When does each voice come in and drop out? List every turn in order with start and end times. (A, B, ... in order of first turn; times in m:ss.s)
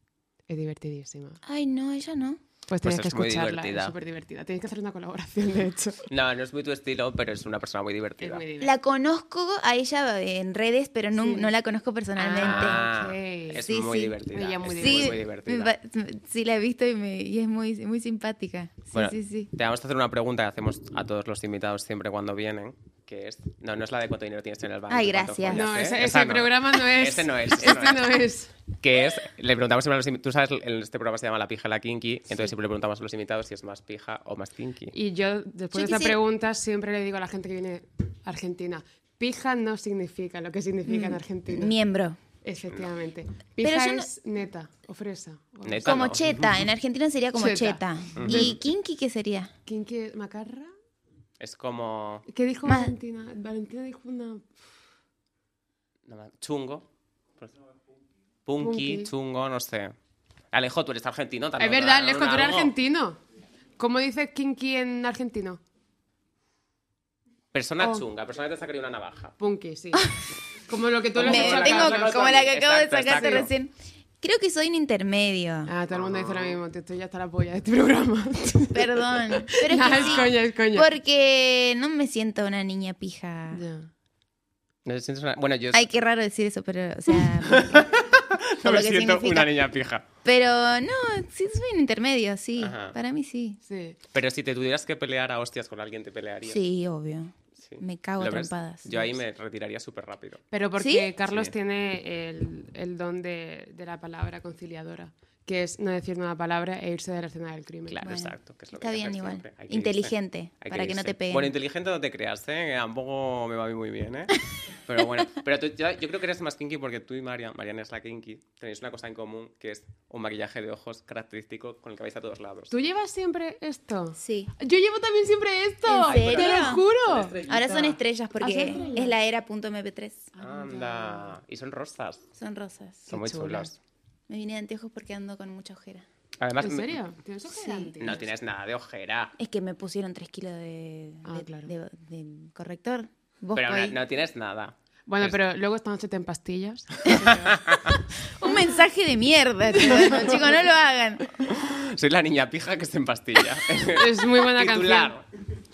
0:00.5-0:01.4 A
0:01.5-0:02.4 B
0:02.7-0:06.1 A
0:02.8-0:04.0 C
0:06.1-0:08.4 C
0:08.2-0:08.8 A
0:08.6-0:12.9 B
0:11.2-0:11.5 A
0:12.2-0:13.6 A
0:12.4-0:15.7 C
0:13.7-0:14.2 B
0:14.3-0:15.2 A
0:14.8-0:19.5 B
0:18.9-0:28.1 C
0:24.9-0:25.7 B
0:25.5-0:28.5 A
0:27.7-0:28.0 B
0:28.8-0:35.0 C
0:34.9-0:41.7 A
0:35.7-0:36.2 B
0:40.9-0:42.2 B
0:42.4-0:46.1 A
0:43.6-0:44.1 B
0:45.6-0:46.6 C
0:45.8-0:49.5 B
0:47.4-0:48.6 A
0:48.2-0:48.6 C
0:49.7-0:50.7 A
0:51.4-0:52.3 C
0:52.3-0:54.7 A
0:52.7-0:52.9 B
0:56.1-0:56.9 C
0:58.5-1:00.0 C
0:58.6-0:59.1 A
1:00.5-1:02.8 C
1:01.6-1:03.2 A
1:03.8-1:05.6 A
1:07.5-1:09.3 C
1:07.8-1:08.1 A
1:09.4-1:10.1 A
1:10.7-1:12.3 A
1:11.2-1:13.5 C
1:11.2-1:15.7 B
1:15.7-1:20.9 A
1:15.9-1:16.6 C
1:18.7-1:23.6 B
1:19.8-1:20.3 C
1:23.5-1:23.9 A
1:24.9-1:25.9 C
1:25.7-1:27.9 B
1:27.4-1:30.1 C
1:28.6-1:29.6 B
1:30.2-1:33.6 B
1:32.6-1:33.0 C
1:33.7-1:34.0 A
1:34.1-1:36.6 C
1:36.5-1:39.2 B
1:37.6-1:40.4 C
1:40.5-1:48.1 A
1:40.8-1:41.1 B
1:47.9-2:02.7 C
1:48.0-1:51.5 B
2:02.7-2:09.2 A
2:04.2-2:04.5 B
2:05.9-2:06.8 B
2:06.0-2:07.9 C
2:07.5-2:10.3 B
2:10.4-2:11.4 A
2:10.4-2:12.2 C
2:12.4-2:13.1 B
2:13.1-2:13.7 A
2:13.1-2:13.8 C
2:14.3-2:16.1 B
2:16.4-2:17.0 C
2:16.6-2:18.2 A
2:17.5-2:18.1 B
2:18.0-2:19.4 C
2:19.4-2:24.0 B
2:21.2-2:21.7 A
2:23.6-2:25.4 C
2:25.1-2:27.7 A
2:27.1-2:28.0 C
2:28.2-2:31.3 B
2:29.7-2:30.4 A
2:31.4-2:35.2 C
2:33.9-2:35.1 A